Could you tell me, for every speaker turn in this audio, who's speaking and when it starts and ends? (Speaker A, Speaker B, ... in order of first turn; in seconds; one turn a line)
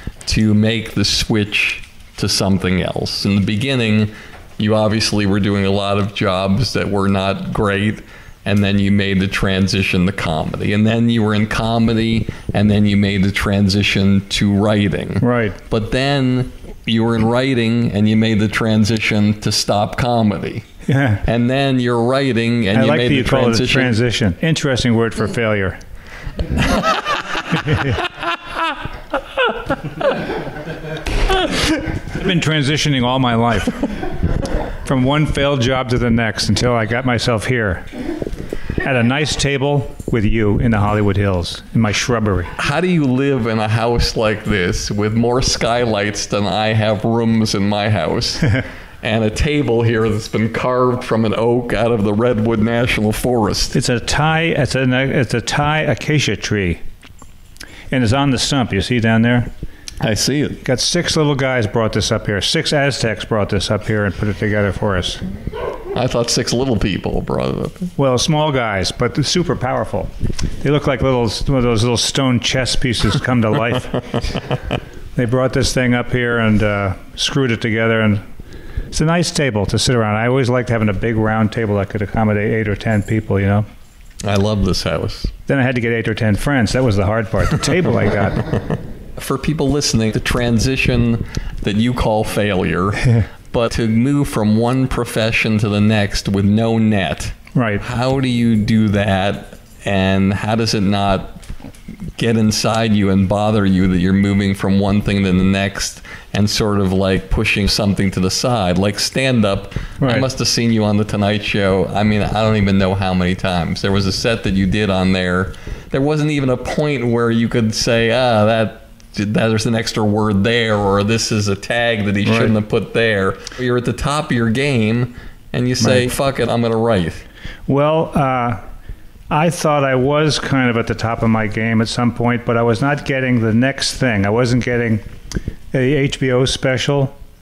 Speaker A: 0.2-20.7
Speaker B: 15.2-15.6
Speaker B: 20.9-21.2
Speaker A: 21.2-24.0
Speaker B: 22.7-25.8
Speaker B: 32.1-33.9
Speaker B: 34.8-37.9
Speaker B: 38.8-42.5
Speaker A: 42.6-53.8
Speaker B: 53.7-56.8
Speaker B: 57.9-59.5
Speaker A: 60.0-60.6
Speaker B: 60.6-65.2
Speaker A: 65.9-67.9
Speaker B: 68.0-74.2
Speaker B: 75.2-78.2
Speaker B: 78.9-83.7
Speaker A: 84.2-85.3
Speaker B: 85.5-88.5
Speaker A: 88.4-101.4
Speaker B: 97.5-97.8
Speaker A: 102.2-127.2
Speaker B: 110.0-110.2
Speaker B: 122.2-122.5
Speaker B: 125.8-126.0
Speaker B: 127.7-128.6
Speaker B: 129.3-135.0
Speaker B: 135.7-137.1